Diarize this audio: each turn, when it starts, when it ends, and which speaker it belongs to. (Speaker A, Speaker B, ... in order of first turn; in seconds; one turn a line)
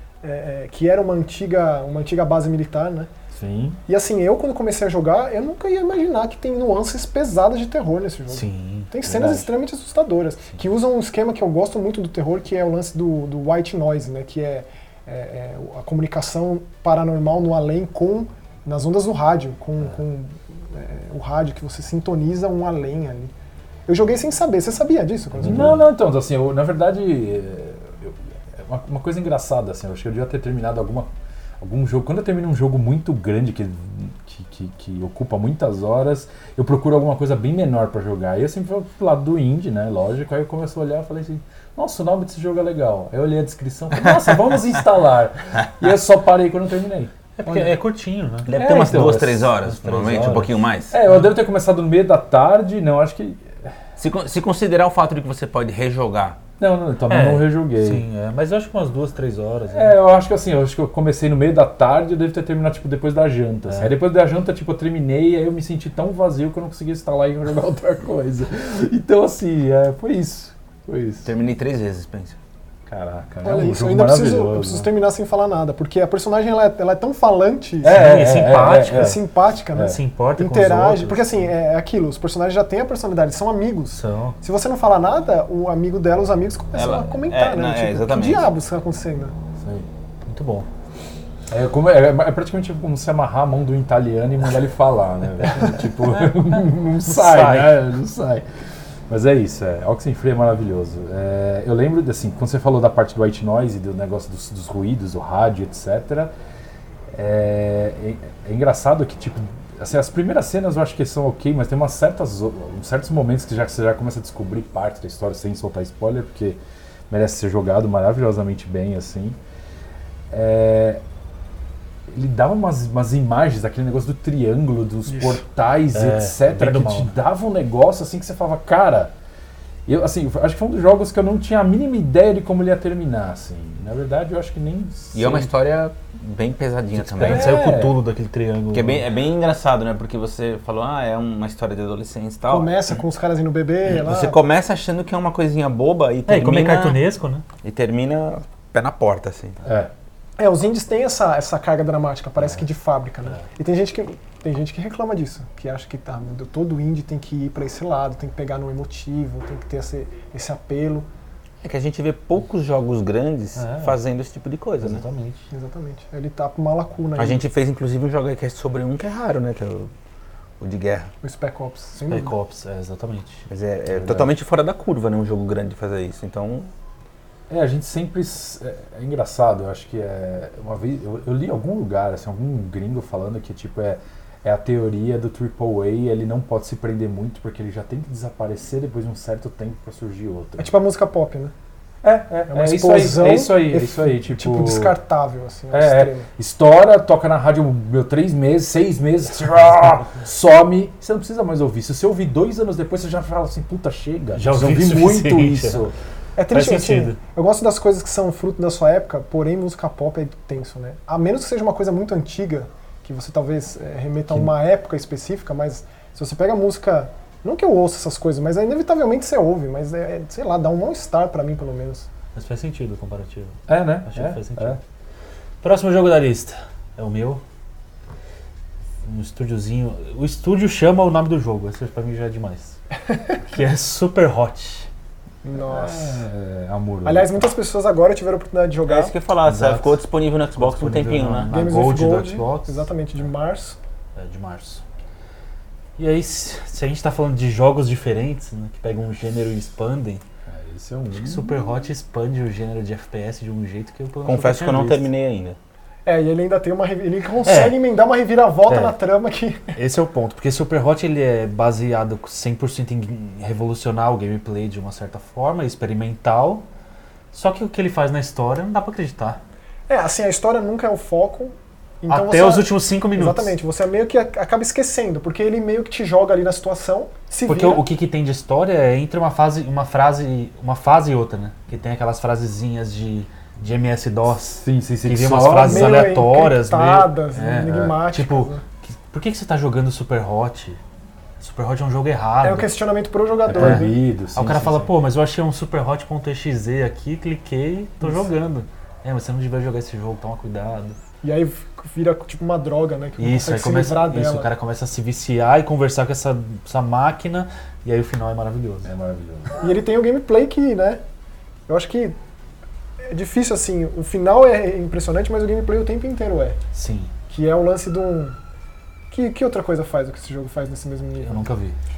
Speaker A: 0.2-3.1
Speaker B: 3.3-3.8
Speaker A: 3.9-23.3
Speaker C: 8.3-8.9
Speaker B: 9.1-9.5
Speaker A: 23.9-25.8
Speaker B: 25.4-47.7
Speaker C: 47.4-48.5
Speaker D: 48.5-51.0
Speaker B: 48.5-53.7
Speaker C: 49.7-50.5
Speaker D: 54.0-56.4
Speaker B: 56.6-58.0
Speaker C: 57.1-60.0
Speaker B: 59.7-71.3
Speaker D: 71.2-72.4
Speaker B: 72.9-74.9
Speaker A: 73.4-78.0
Speaker B: 77.8-79.2
Speaker C: 77.9-79.2
Speaker A: 78.9-89.3
Speaker C: 79.8-81.5
Speaker C: 83.9-84.4
Speaker D: 86.7-88.5
Speaker B: 89.6-89.9
Speaker C: 90.3-90.7
Speaker B: 91.5-98.5
Speaker C: 97.1-97.8
Speaker B: 99.1-106.3
Speaker B: 107.1-116.6
Speaker B: 117.1-119.4
Speaker B: 120.3-121.0
Speaker B: 122.1-129.1
Speaker C: 125.9-127.1
Speaker B: 129.9-135.5
Speaker D: 135.1-137.6
Speaker B: 137.0-138.0
Speaker C: 137.2-139.1
Speaker D: 138.7-143.0
Speaker A: 142.5-144.4
Speaker D: 143.8-147.0
Speaker C: 146.3-147.4
Speaker D: 147.6-149.6
Speaker B: 149.7-149.9
Speaker A: 150.4-161.1
Speaker D: 161.6-165.0
Speaker C: 163.6-164.0
Speaker C: 164.8-165.5
Speaker A: 165.5-167.4
Speaker D: 167.2-169.9
Speaker D: 170.6-171.1
Speaker A: 171.2-172.4
Speaker C: 172.1-173.4
Speaker D: 173.5-176.7
Speaker B: 173.9-174.3
Speaker B: 177.5-190.7
Speaker A: 190.6-191.5
Speaker B: 192.0-195.0
Speaker A: 192.5-196.3
Speaker B: 195.7-205.9
Speaker C: 204.3-205.8
Speaker A: 206.4-222.1
Speaker C: 206.5-207.2
Speaker C: 222.3-224.8
Speaker B: 223.7-224.8
Speaker C: 225.6-227.4
Speaker C: 229.0-232.8
Speaker C: 233.4-234.9
Speaker A: 235.4-236.2
Speaker B: 235.6-237.5
Speaker A: 237.1-239.1
Speaker D: 238.9-241.5
Speaker C: 239.4-240.0
Speaker C: 240.6-242.9
Speaker A: 241.5-243.8
Speaker C: 244.2-244.8
Speaker C: 246.0-250.2
Speaker B: 250.5-251.7
Speaker C: 251.2-255.1
Speaker D: 254.2-255.6
Speaker A: 256.1-259.8
Speaker C: 257.4-257.8
Speaker C: 258.7-258.9
Speaker C: 259.7-266.6
Speaker C: 267.3-269.4
Speaker A: 269.9-277.8
Speaker C: 272.1-273.5
Speaker C: 277.5-290.8
Speaker B: 284.6-286.1
Speaker A: 285.6-288.6
Speaker C: 291.4-292.7
Speaker A: 292.4-294.0
Speaker B: 293.5-294.9
Speaker C: 293.5-301.0
Speaker A: 301.2-304.5
Speaker C: 303.2-308.9
Speaker B: 308.9-309.6
Speaker A: 309.6-311.0
Speaker A: 311.7-312.1
Speaker A: 313.1-316.6
Speaker C: 316.7-317.1
Speaker A: 317.3-318.4
Speaker A: 319.1-321.5
Speaker C: 321.2-321.8